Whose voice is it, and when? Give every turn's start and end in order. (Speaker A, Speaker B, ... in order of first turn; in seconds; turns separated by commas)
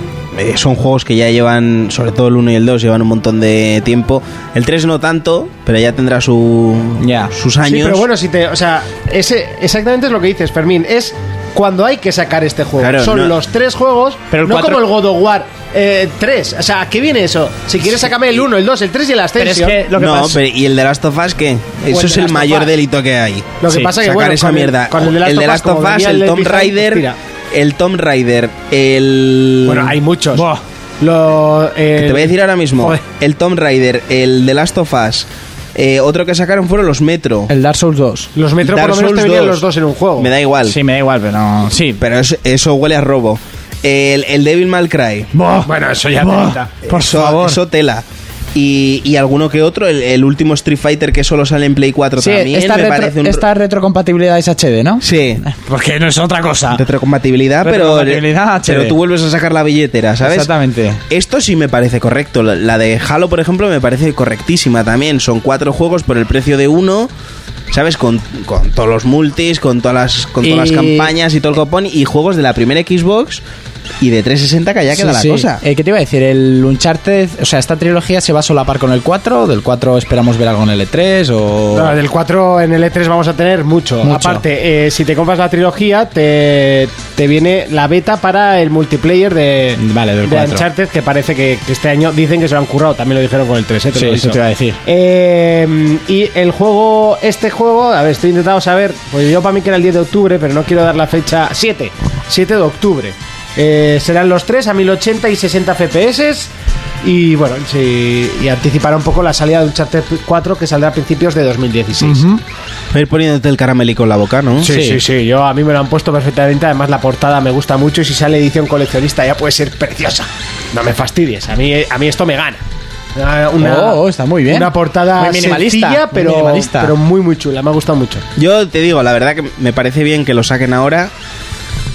Speaker A: 0.3-8.1, Speaker B: 7.0-7.3, Speaker C: 7.6-19.8, Speaker A: 12.8-13.3, Speaker B: 14.3-14.8, Speaker B: 19.4-20.4, Speaker A: 19.9-30.0, Speaker C: 21.9-22.7, Speaker C: 23.6-27.2, Speaker B: 23.7-23.9, Speaker C: 29.6-30.4, Speaker B: 30.3-30.6, Speaker C: 31.0-33.0, Speaker A: 32.0-37.5, Speaker B: 37.5-38.3, Speaker C: 38.4-40.3, Speaker A: 38.6-39.6, Speaker A: 40.2-40.8, Speaker B: 40.6-42.0, Speaker A: 42.0-45.3, Speaker B: 45.3-47.6, Speaker C: 45.6-46.7, Speaker A: 46.8-53.5, Speaker B: 52.2-56.8, Speaker A: 55.0-55.4, Speaker A: 56.7-60.5, Speaker B: 57.6-58.9, Speaker B: 60.2-61.0, Speaker A: 61.1-67.1, Speaker A: 67.7-73.4, Speaker B: 70.4-71.1, Speaker A: 74.0-75.6, Speaker B: 75.0-81.9, Speaker C: 81.7-106.5, Speaker B: 84.0-84.4, Speaker B: 89.8-90.6, Speaker B: 93.9-94.8, Speaker C: 107.0-112.2, Speaker B: 112.0-112.4, Speaker A: 112.9-114.8, Speaker C: 114.6-122.6, Speaker B: 114.7-115.0, Speaker C: 123.2-128.2, Speaker B: 123.6-126.9, Speaker A: 128.4-131.1